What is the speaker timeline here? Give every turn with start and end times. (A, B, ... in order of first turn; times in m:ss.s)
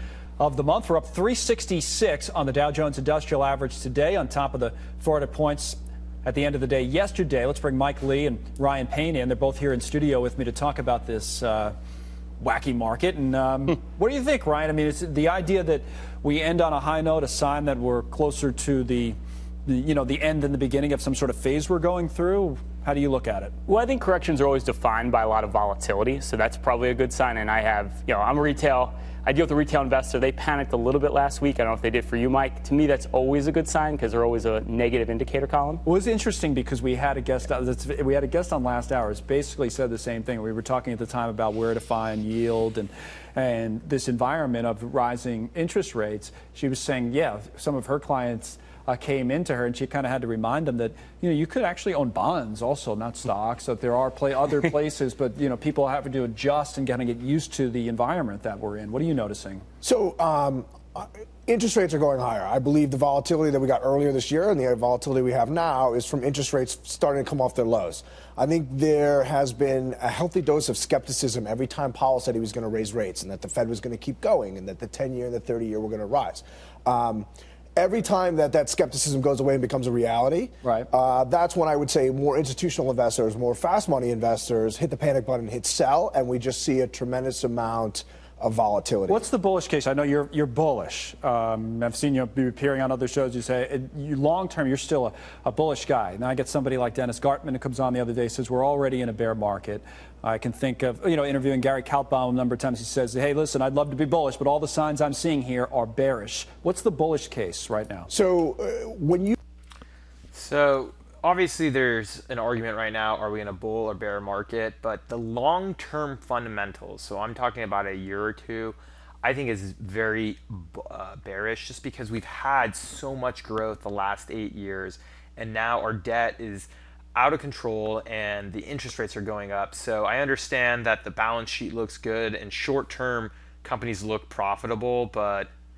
0:00.4-0:11.7 A
0:12.4-0:23.5 A
0:23.6-0:35.8 B
0:35.8-0:59.6 A
0:59.8-1:29.2 C
1:29.1-1:48.1 A
1:48.1-1:49.4 C
1:50.3-2:15.5 D